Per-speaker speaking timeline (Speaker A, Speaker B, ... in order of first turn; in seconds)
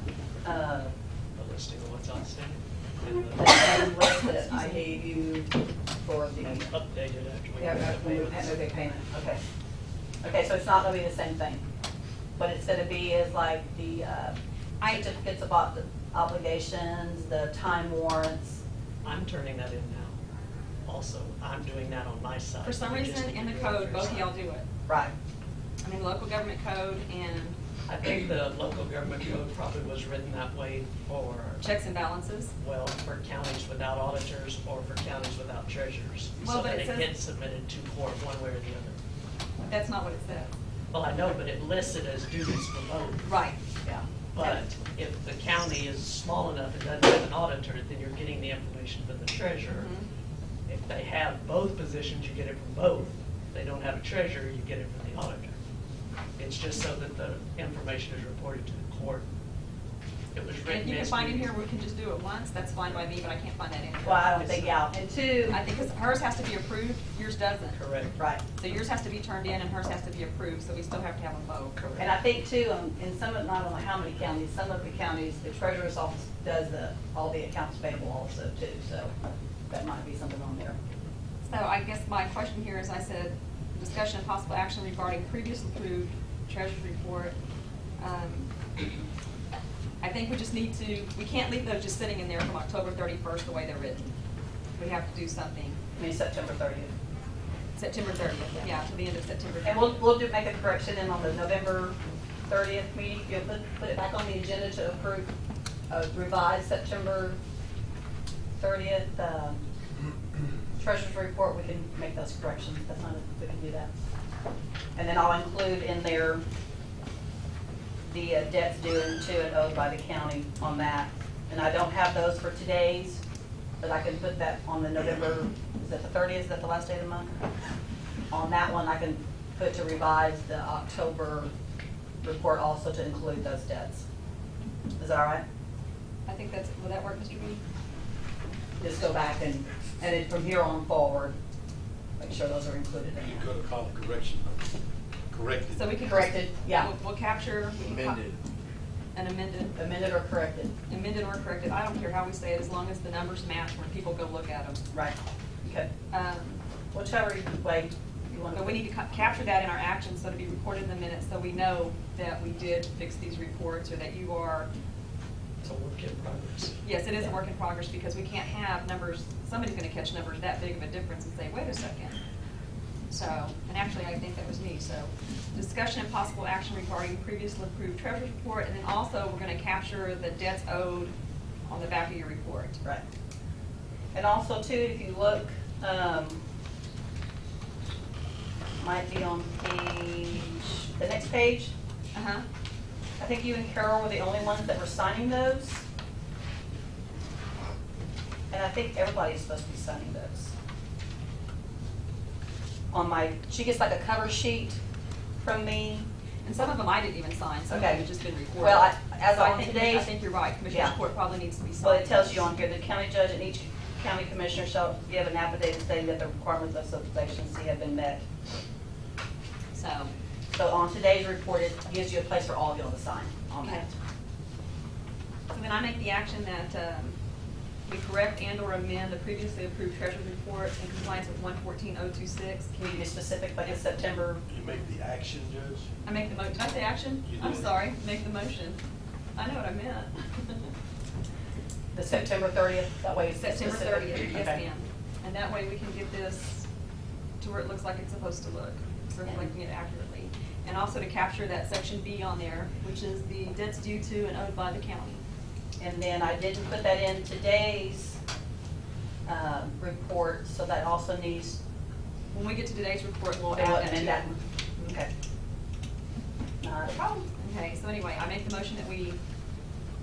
Speaker A: 0.4-0.9, 3.3-6.7, 7.6-9.4, 10.2-11.6, 12.4-18.6, 24.9-25.1, 64.0-65.6, 72.0-79.1, 79.7-80.8, 96.0-96.9, 99.6-105.3, 105.9-107.4, 108.6-109.6, 110.7-113.9, 114.9-116.4, 118.0-123.2, 123.8-127.3, 128.3-131.5, 132.2-134.0, 135.0-135.4, 138.8-141.3, 142.2-143.4, 146.0-146.9, 149.7-150.7, 154.9-155.9, 156.9-158.8, 184.1-186.4, 188.8-191.7, 193.2-195.8, 198.5-200.5, 202.9-204.8, 205.4-206.1, 207.7-208.1, 208.6-210.1, 210.7-211.0, 211.8-218.2, 220.5-223.9, 232.8-234.4, 241.9-244.6, 249.2-249.5, 255.8-258.2, 259.2-261.6, 263.5-265.1, 266.6-267.3
Speaker B: 1.3-3.7, 6.4-8.6, 19.0-20.1, 20.9-24.3, 27.9-31.6, 32.6-39.0, 40.9-43.2, 44.3-49.9, 50.7-55.5, 56.4-59.2, 60.3-61.5, 64.4-64.7, 67.7-68.2, 71.8-72.1, 165.6-166.8
Speaker C: 4.4-4.8, 14.8-15.1, 22.6-24.7, 25.8-27.6, 31.6-32.5, 36.4-37.1, 39.7-40.5, 43.2-43.6, 49.7-50.1, 60.6-64.4, 65.5-67.8, 68.5-71.9, 81.5-87.3, 88.0-88.8, 90.0-94.1, 94.8-95.8, 97.8-100.0, 136.2-137.6, 145.8-148.2, 149.1-149.8, 150.9-154.8, 156.1-156.6, 158.5-164.7, 166.8-172.2, 173.1-181.1, 181.7-182.8, 192.1-192.4, 206.4-212.5, 219.7-220.1, 223.6-223.8, 225.5-227.2, 227.8-233.0, 236.0-238.8, 239.3-240.7, 243.4-246.7, 247.4-255.2, 262.3-264.3, 267.4-269.2
Speaker D: 143.1-144.7, 145.3-145.9, 234.5-235.9, 237.2-237.8